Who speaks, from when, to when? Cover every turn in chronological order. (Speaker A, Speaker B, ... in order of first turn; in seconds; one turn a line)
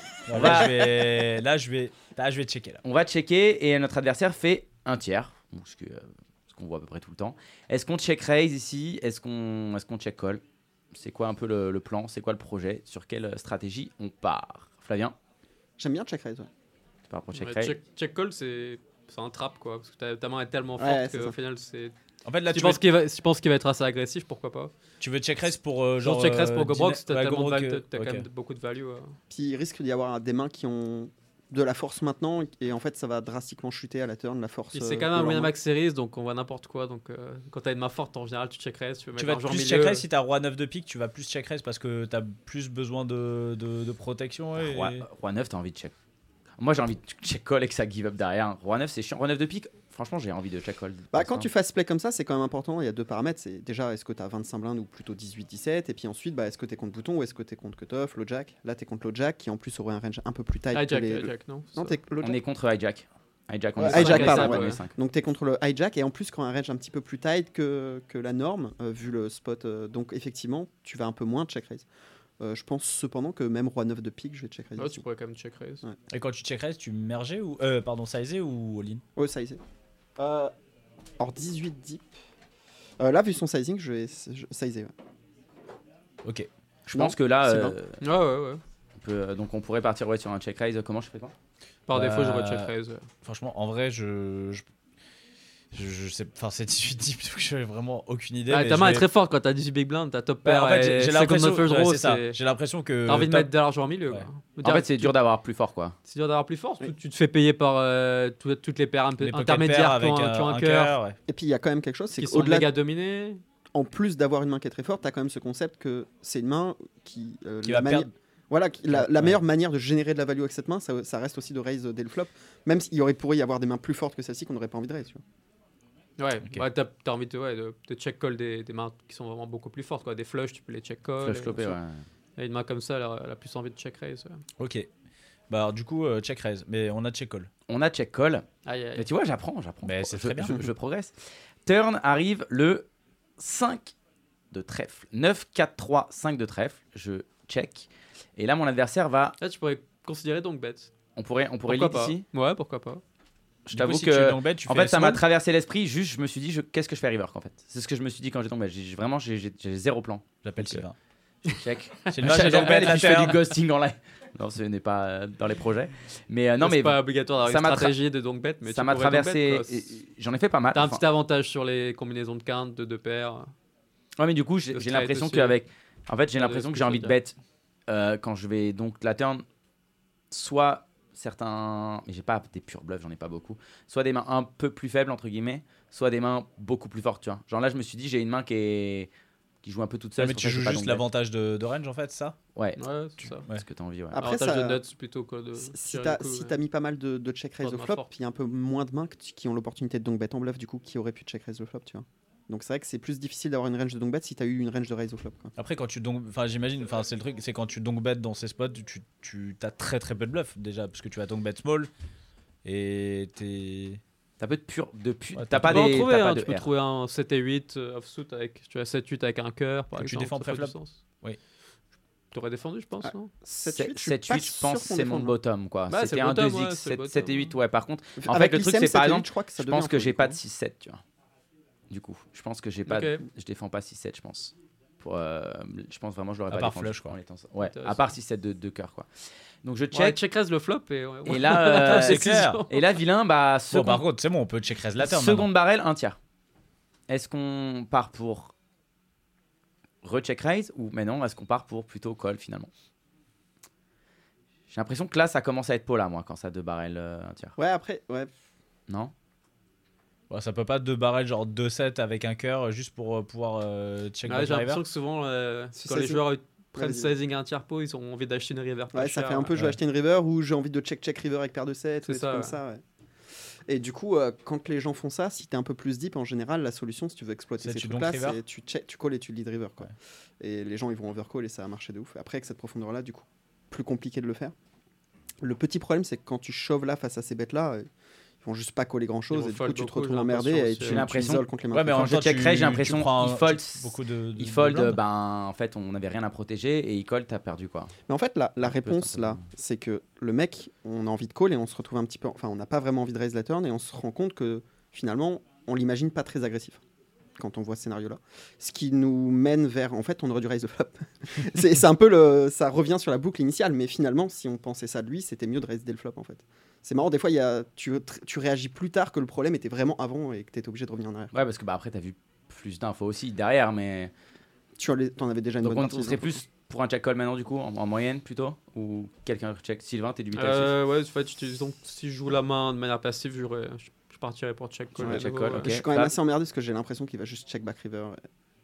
Speaker A: 0.2-2.8
Speaker B: 0.3-0.9
Speaker B: 2.8-15.2
Speaker C: 15.8-16.5
Speaker B: 17.1-17.8
Speaker D: 17.3-21.9
Speaker C: 20.8-21.4
Speaker A: 22.2-22.8
Speaker D: 22.5-24.7
Speaker A: 25.0-28.2
Speaker D: 26.0-29.1
Speaker C: 29.3-35.5
Speaker D: 34.7-40.0
Speaker A: 39.2-45.0
Speaker B: 44.5-45.9
Speaker B: 46.6-51.5
Speaker C: 51.1-62.4
Speaker D: 60.7-62.0
Speaker B: 62.2-64.9
Speaker C: 63.8-71.8
Speaker D: 63.9-64.8
Speaker C: 72.4-75.0
Speaker D: 74.8-75.8
Speaker A: 76.1-79.0
Speaker C: 79.2-79.6
Speaker C: 80.2-80.5
Speaker C: 81.2-82.1
Speaker C: 83.0-84.9
Speaker B: 86.8-88.0
Speaker C: 86.9-87.7
Speaker D: 88.0-88.6
Speaker B: 89.0-91.3
Speaker D: 91.9-93.0
Speaker A: 91.9-92.7
Speaker A: 93.2-94.7
Speaker A: 95.7-99.0
Speaker D: 98.5-102.4
Speaker A: 100.4-103.5
Speaker D: 103.0-105.1
Speaker B: 104.6-106.0
Speaker D: 106.1-111.0
Speaker A: 109.2-111.2
Speaker C: 111.3-112.7
Speaker D: 112.2-113.4
Speaker C: 113.7-125.2
Speaker A: 117.6-118.1
Speaker A: 118.9-119.4
Speaker D: 126.2-131.8
Speaker B: 131.2-132.0
Speaker D: 132.3-134.4
Speaker A: 134.6-134.9
Speaker A: 135.5-137.5
Speaker B: 137.7-142.9
Speaker D: 138.6-139.1
Speaker A: 139.8-140.6
Speaker B: 143.4-143.9
Speaker B: 144.5-149.4
Speaker D: 149.4-150.9
Speaker B: 151.2-152.2
Speaker D: 151.7-153.0
Speaker A: 153.7-155.2
Speaker B: 153.7-160.8
Speaker A: 160.4-160.9
Speaker B: 161.4-167.9
Speaker A: 162.1-163.4
Speaker D: 166.6-169.8
Speaker B: 168.6-171.0
Speaker D: 170.7-173.5
Speaker B: 174.2-177.4
Speaker D: 174.7-175.6
Speaker D: 176.3-177.1
Speaker B: 177.9-179.4
Speaker B: 180.3-189.1
Speaker B: 189.6-191.0
Speaker A: 190.2-192.3
Speaker B: 192.5-192.8
Speaker D: 192.8-193.4
Speaker B: 193.4-194.2
Speaker C: 194.1-194.8
Speaker D: 194.1-196.6
Speaker C: 195.6-205.5
Speaker D: 197.6-198.1
Speaker A: 205.6-211.9
Speaker A: 212.6-214.0
Speaker B: 214.4-216.7
Speaker A: 215.3-215.9
Speaker D: 215.6-221.0
Speaker A: 220.0-221.4
Speaker D: 222.3-223.3
Speaker C: 223.0-225.3
Speaker B: 223.6-231.0
Speaker D: 225.9-227.5
Speaker C: 228.2-230.4
Speaker B: 231.9-239.1
Speaker D: 232.9-233.2
Speaker A: 236.5-237.2
Speaker D: 237.6-238.0
Speaker B: 239.6-240.2
Speaker D: 239.9-242.9
Speaker B: 241.2-244.0
Speaker A: 241.8-242.6
Speaker A: 243.7-245.5
Speaker B: 245.0-246.2
Speaker B: 247.1-248.5
Speaker B: 250.0-252.7
Speaker B: 254.7-257.5
Speaker C: 257.6-258.3
Speaker B: 258.9-259.1
Speaker A: 260.3-264.8
Speaker D: 264.2-269.5
Speaker C: 265.7-266.2
Speaker C: 266.7-267.1
Speaker C: 268.9-272.8
Speaker D: 272.0-272.6
Speaker C: 273.7-284.5
Speaker A: 277.6-278.4
Speaker C: 285.4-287.9
Speaker C: 288.4-292.1
Speaker D: 289.3-291.0
Speaker B: 290.8-297.9
Speaker A: 291.7-295.0
Speaker C: 298.1-306.8
Speaker B: 298.6-299.4
Speaker C: 307.4-321.3
Speaker B: 321.3-324.1
Speaker C: 324.8-326.4
Speaker B: 325.6-330.7
Speaker D: 330.3-335.8
Speaker C: 335.0-338.2
Speaker B: 335.0-336.1